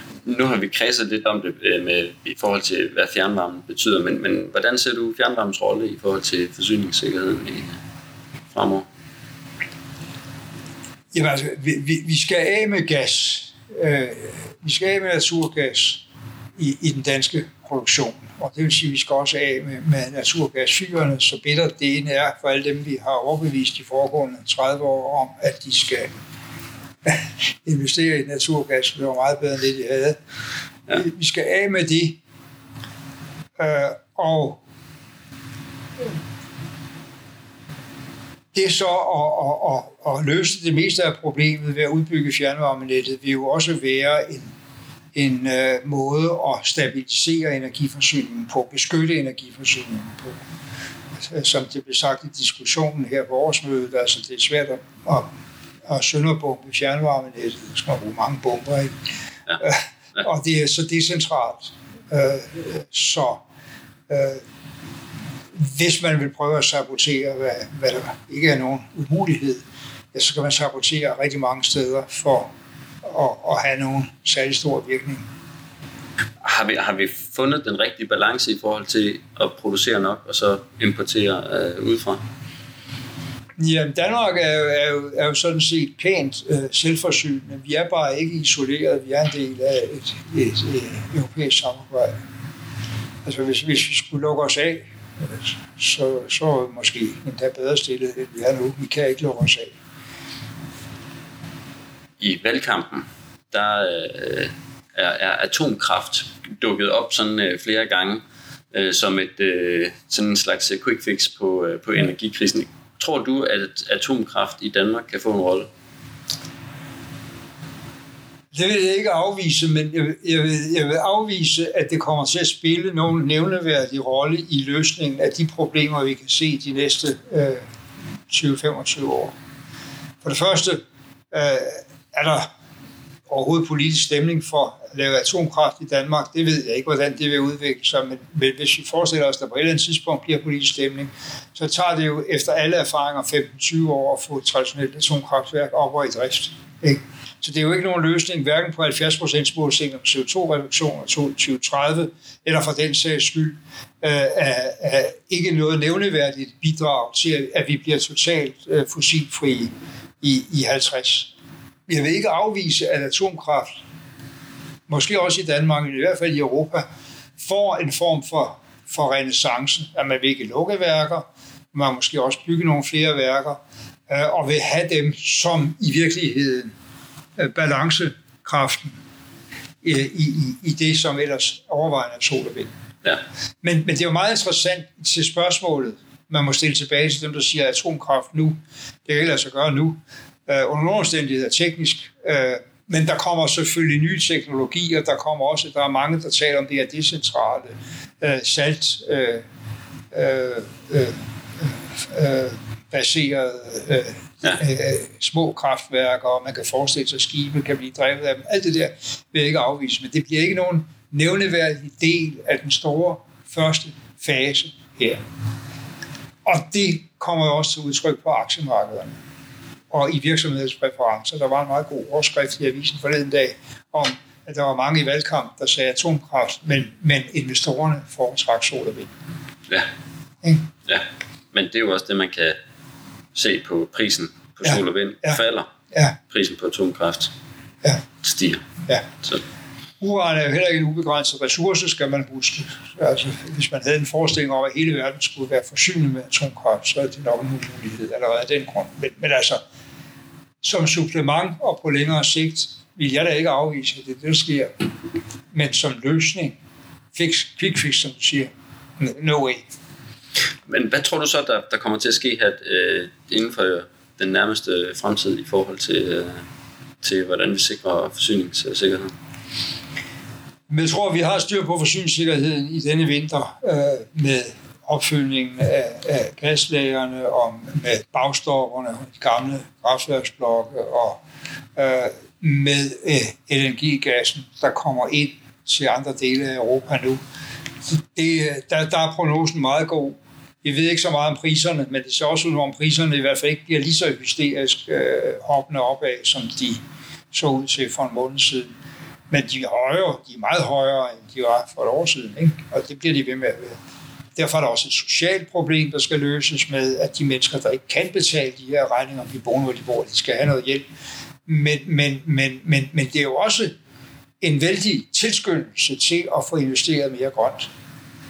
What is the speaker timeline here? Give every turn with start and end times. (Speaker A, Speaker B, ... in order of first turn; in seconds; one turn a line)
Speaker A: 0.2-7.8
Speaker A: 8.5-8.9
Speaker B: 11.1-16.1
Speaker B: 16.6-26.1
Speaker B: 27.1-30.2
Speaker B: 30.9-32.2
Speaker B: 33.6-34.6
Speaker B: 38.5-44.5
Speaker B: 45.1-50.4
Speaker B: 51.2-55.3
Speaker B: 55.9-58.9
Speaker B: 59.6-63.4
Speaker B: 64.1-64.4
Speaker B: 65.6-72.5
Speaker B: 73.0-75.2
Speaker A: 76.4-82.2
Speaker B: 83.6-92.1
Speaker B: 93.2-99.7
Speaker A: 102.2-115.7
Speaker B: 118.5-127.6
Speaker B: 128.3-129.3
Speaker B: 130.2-132.5
Speaker B: 133.3-161.3
Speaker B: 161.9-163.7
Speaker B: 164.9-166.9
Speaker B: 167.4-176.7
Speaker B: 177.4-179.0
Speaker B: 179.8-182.7
Speaker B: 183.6-199.4
Speaker B: 200.1-201.2
Speaker B: 201.9-215.2
Speaker B: 216.4-219.2
Speaker B: 219.9-229.1
Speaker B: 230.4-230.7
Speaker A: 230.9-232.6
Speaker A: 233.3-235.7
Speaker B: 234.6-235.4
Speaker B: 235.9-236.2
Speaker A: 236.3-237.3
Speaker A: 238.2-238.7
Speaker B: 240.0-249.6
Speaker B: 250.6-254.7
Speaker B: 255.5-256.6
Speaker B: 257.1-259.6
Speaker A: 260.7-266.4
Speaker A: 267.0-269.1
Speaker B: 270.7-281.2
Speaker B: 281.8-287.2
Speaker B: 287.9-296.8
Speaker B: 297.3-298.7
Speaker B: 299.3-303.8
Speaker B: 304.4-310.9
Speaker B: 311.5-313.7
Speaker B: 314.4-317.7